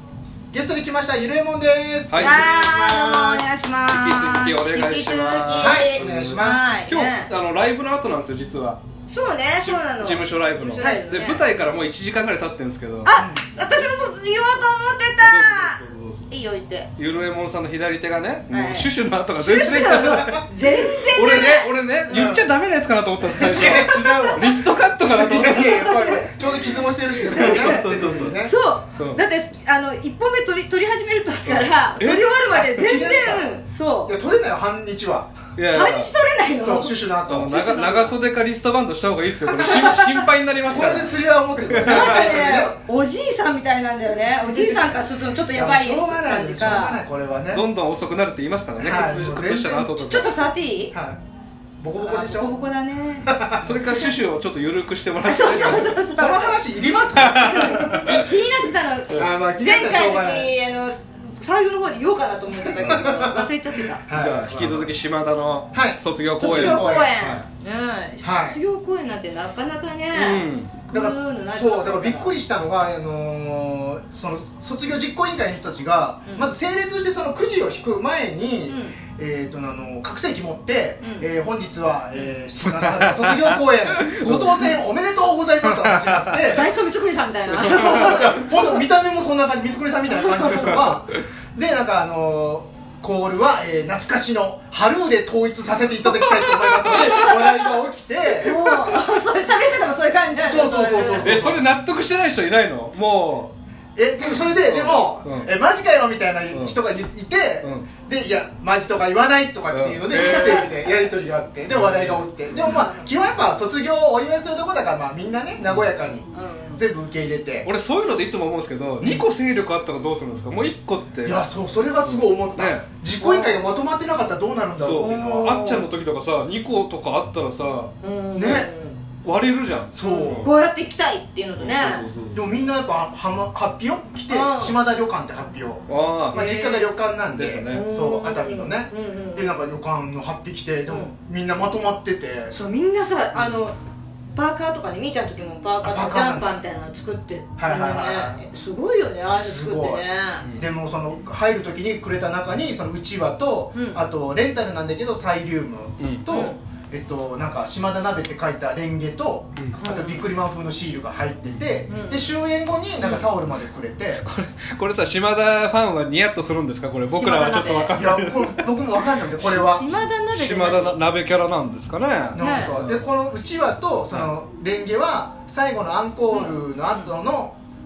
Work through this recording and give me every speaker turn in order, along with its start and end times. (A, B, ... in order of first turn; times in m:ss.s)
0:00.5-0:03.5 A
0:02.1-0:02.5 B
0:02.2-0:07.3 C
0:03.9-0:08.8 B
0:05.6-0:06.7 A
0:09.1-0:11.5 C
0:09.6-0:13.1 B
0:10.8-0:11.1 A
0:13.0-0:16.9 C
0:13.2-0:13.4 A
0:15.2-0:16.3 B
0:17.0-0:20.4 B
0:18.5-0:22.2 C
0:20.1-0:20.4 A
0:21.1-0:26.0 B
0:22.1-0:22.5 A
0:23.4-0:24.4 C
0:23.5-0:28.5 A
0:25.5-0:26.2 C
0:26.7-0:28.4 B
0:27.3-0:27.7 C
0:28.4-0:34.1 C
0:31.5-0:33.0 B
0:32.5-0:35.4 A
0:35.6-0:36.1 B
0:35.7-0:37.0 C
0:36.6-0:38.2 A
0:37.3-0:42.4 B
0:39.5-0:40.1 A
0:40.7-0:42.8 A
0:41.8-0:47.0 C
0:44.3-0:45.0 A
0:45.5-0:47.7 A
0:47.5-0:50.5 B
0:48.8-0:50.0 A
0:49.9-0:51.0 C
0:50.9-0:51.2 A
0:51.8-0:52.6 A
0:52.0-0:53.3 C
0:53.2-0:53.7 A
0:53.6-0:56.0 B
0:55.2-0:56.6 C
0:55.5-0:57.9 A
0:57.2-0:58.3 B
0:57.2-1:04.0 C
0:59.2-1:00.5 A
1:02.6-1:04.9 A
1:04.1-1:07.4 B
1:05.7-1:07.1 A
1:06.4-1:12.3 C
1:08.2-1:08.6 A
1:10.1-1:10.7 B
1:10.9-1:26.7 A
1:18.7-1:19.0 C
1:21.0-1:21.3 C
1:22.7-1:24.8 B
1:25.6-1:26.5 B
1:26.5-1:28.5 C
1:27.6-1:28.4 B
1:27.6-1:38.8 A
1:30.2-1:30.9 C
1:30.5-1:30.9 B
1:36.9-1:37.4 B
1:36.9-1:37.3 C
1:38.4-1:41.4 C
1:40.4-1:41.6 A
1:41.2-1:43.5 B
1:44.0-1:57.7 A
1:44.4-1:45.5 B
1:46.5-1:46.8 B
1:47.6-1:47.9 B
1:49.7-1:50.7 B
1:50.1-1:50.7 C
1:51.7-1:52.8 B
1:52.6-1:53.1 C
1:56.3-1:56.8 C
1:57.6-2:01.4 B
2:01.2-2:05.6 A
2:02.0-2:02.8 B
2:03.2-2:03.7 C
2:04.8-2:07.9 B
2:05.0-2:05.9 C
2:08.0-2:09.0 C
2:08.4-2:08.7 A
2:09.2-2:10.5 B
2:09.9-2:10.5 A
2:10.0-2:12.0 C
2:11.6-2:12.4 B
2:12.3-2:22.6 A
2:14.3-2:14.8 C
2:15.9-2:16.4 B
2:16.3-2:17.0 C
2:17.3-2:17.9 B
2:17.7-2:19.7 C
2:20.9-2:21.1 C
2:22.5-2:23.8 C
2:24.3-2:30.5 C
2:25.8-2:26.5 A
2:27.6-2:28.4 A
2:29.3-2:44.2 A
2:33.8-2:34.0 C
2:36.0-2:36.2 B
2:36.3-2:36.6 C
2:39.8-2:40.3 C
2:41.9-2:42.3 C
2:43.0-2:43.3 C
2:44.2-2:49.0 B
2:47.1-2:48.0 C
2:47.9-2:49.9 A
2:49.4-2:51.0 C
2:50.3-2:53.1 B
2:52.3-2:57.6 A
2:52.4-2:52.8 C
2:56.3-2:57.1 C